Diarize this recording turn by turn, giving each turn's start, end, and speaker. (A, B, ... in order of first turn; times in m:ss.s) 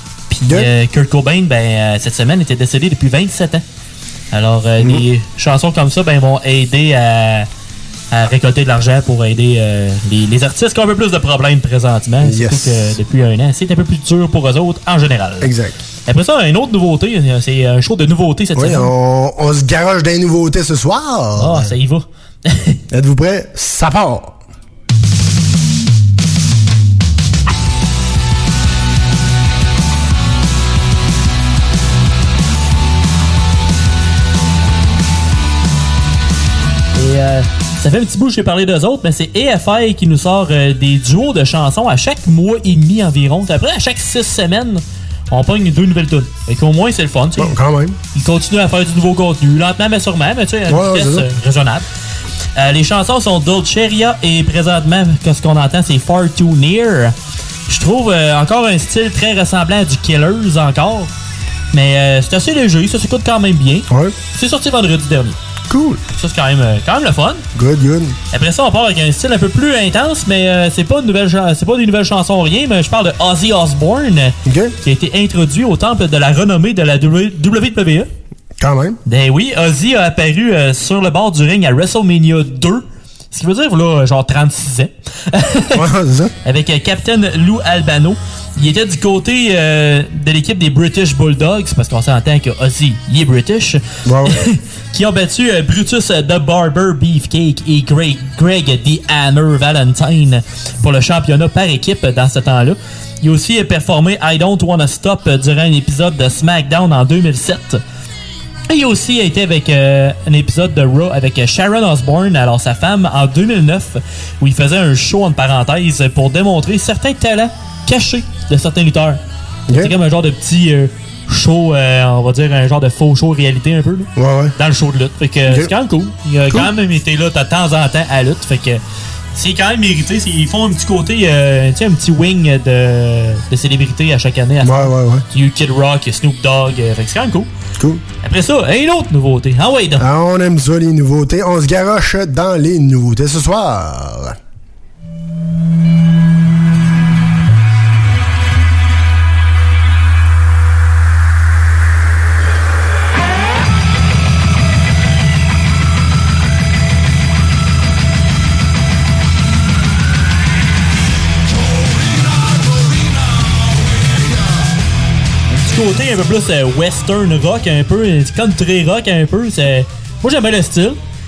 0:00.3-0:03.6 A
0:04.3-0:07.5 A
0:08.1-0:15.5 A
0:12.2-0:12.9 B
0:15.4-0:15.8 B
0:16.1-0:18.9 A
0:18.6-0:21.7 B
0:21.4-0:22.8 A
0:22.9-0:24.4 B
0:37.0-0:47.5 A
0:47.4-0:48.0 B
0:48.1-0:51.8 A
0:50.7-0:51.3 B
0:52.6-0:57.1 A
0:57.7-1:01.1 A
1:01.7-1:05.4 A
1:03.9-1:04.1 B
1:05.7-1:06.0 B
1:06.2-1:07.4 A
1:07.5-1:08.2 B
1:08.3-1:18.1 A
1:14.4-1:14.7 B
1:18.6-1:19.0 B
1:19.0-1:25.8 A
1:25.7-1:26.3 B
1:26.4-1:47.8 A
1:34.0-1:34.4 B
1:48.7-1:59.2 A
1:59.8-2:08.8 A
2:04.2-2:04.5 B
2:09.3-2:17.5 A
2:14.6-2:15.2 B
2:18.2-2:20.0 A
2:20.0-2:24.4 B
2:45.5-2:51.0 A